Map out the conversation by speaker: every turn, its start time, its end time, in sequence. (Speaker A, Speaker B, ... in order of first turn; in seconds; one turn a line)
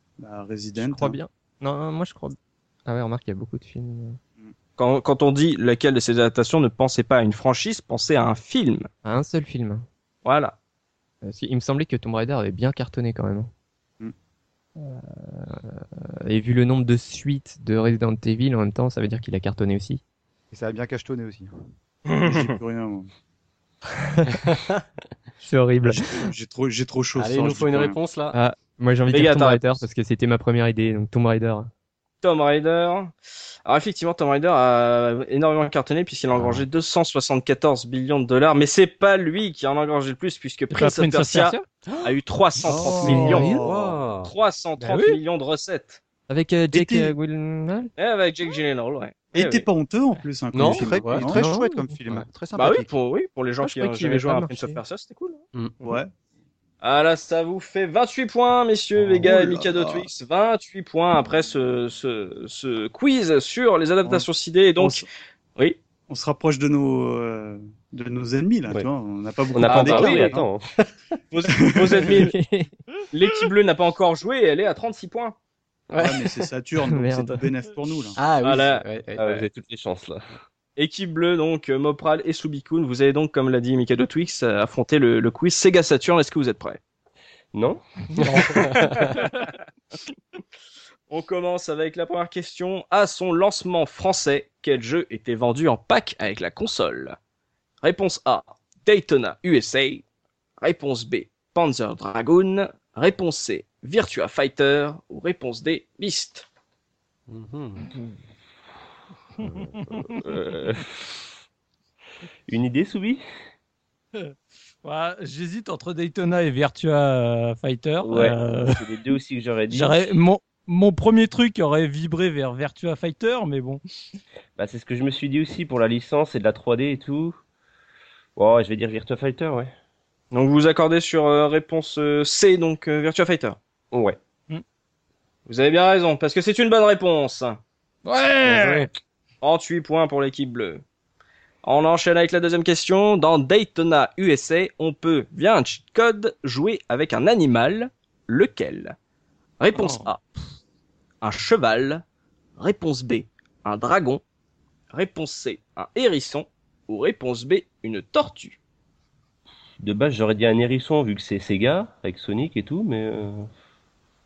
Speaker A: 0.2-1.2
Speaker B: 0.8-4.2
Speaker C: 4.8-8.9
Speaker B: 9.0-9.8
Speaker C: 10.2-10.6
Speaker B: 11.2-13.5
Speaker B: 14.8-20.0
Speaker D: 20.5-21.5
Speaker C: 22.1-22.5
Speaker A: 22.2-23.1
Speaker B: 24.0-24.3
Speaker E: 24.5-24.8
Speaker B: 25.4-26.3
Speaker A: 25.8-28.0
Speaker E: 27.1-28.4
Speaker B: 28.3-31.7
Speaker C: 29.1-29.8
Speaker C: 32.2-33.1
Speaker C: 33.6-43.6
Speaker B: 36.3-36.6
Speaker F: 40.7-41.6
Speaker E: 41.9-44.3
Speaker A: 42.7-44.0
Speaker C: 44.2-46.0
Speaker F: 44.8-45.2
Speaker B: 46.3-47.9
Speaker A: 46.7-47.1
Speaker C: 48.0-49.6
Speaker A: 49.3-51.4
Speaker E: 50.5-51.3
Speaker D: 50.6-52.9
Speaker B: 51.2-52.0
Speaker C: 52.5-56.0
Speaker B: 53.6-54.8
Speaker A: 55.8-56.1
Speaker C: 56.8-65.0
Speaker A: 59.2-60.1
Speaker A: 64.8-65.0
Speaker A: 66.1-70.5
Speaker G: 69.5-70.7
Speaker C: 69.6-70.4
Speaker C: 71.3-72.3
Speaker A: 71.5-72.2
Speaker B: 72.1-72.7
Speaker C: 73.1-75.3
Speaker E: 75.9-76.3
Speaker A: 76.0-78.2
Speaker B: 76.8-77.4
Speaker E: 78.2-79.2
Speaker C: 78.4-79.4
Speaker G: 79.2-80.3
Speaker C: 80.8-86.8
Speaker G: 87.5-87.8
Speaker E: 88.2-89.0
Speaker F: 88.2-88.7
Speaker C: 88.5-89.3
Speaker C: 91.1-97.2
Speaker C: 97.8-100.0
Speaker C: 100.6-106.5
Speaker E: 107.3-107.8
Speaker F: 109.4-110.2
Speaker G: 109.4-111.1
Speaker G: 112.5-113.2
Speaker F: 114.8-118.9
Speaker G: 118.0-120.1
Speaker F: 119.7-123.8
Speaker G: 124.6-127.4
Speaker G: 128.3-129.7
Speaker C: 130.3-133.6
Speaker G: 133.9-134.2
Speaker C: 135.4-137.6
Speaker F: 138.1-138.9
Speaker E: 138.4-138.9
Speaker C: 139.4-140.8
Speaker C: 141.6-148.9
Speaker C: 149.6-150.2
Speaker F: 149.7-150.1
Speaker C: 151.2-152.0
Speaker C: 152.6-154.2
Speaker C: 154.9-158.6
Speaker G: 159.8-163.5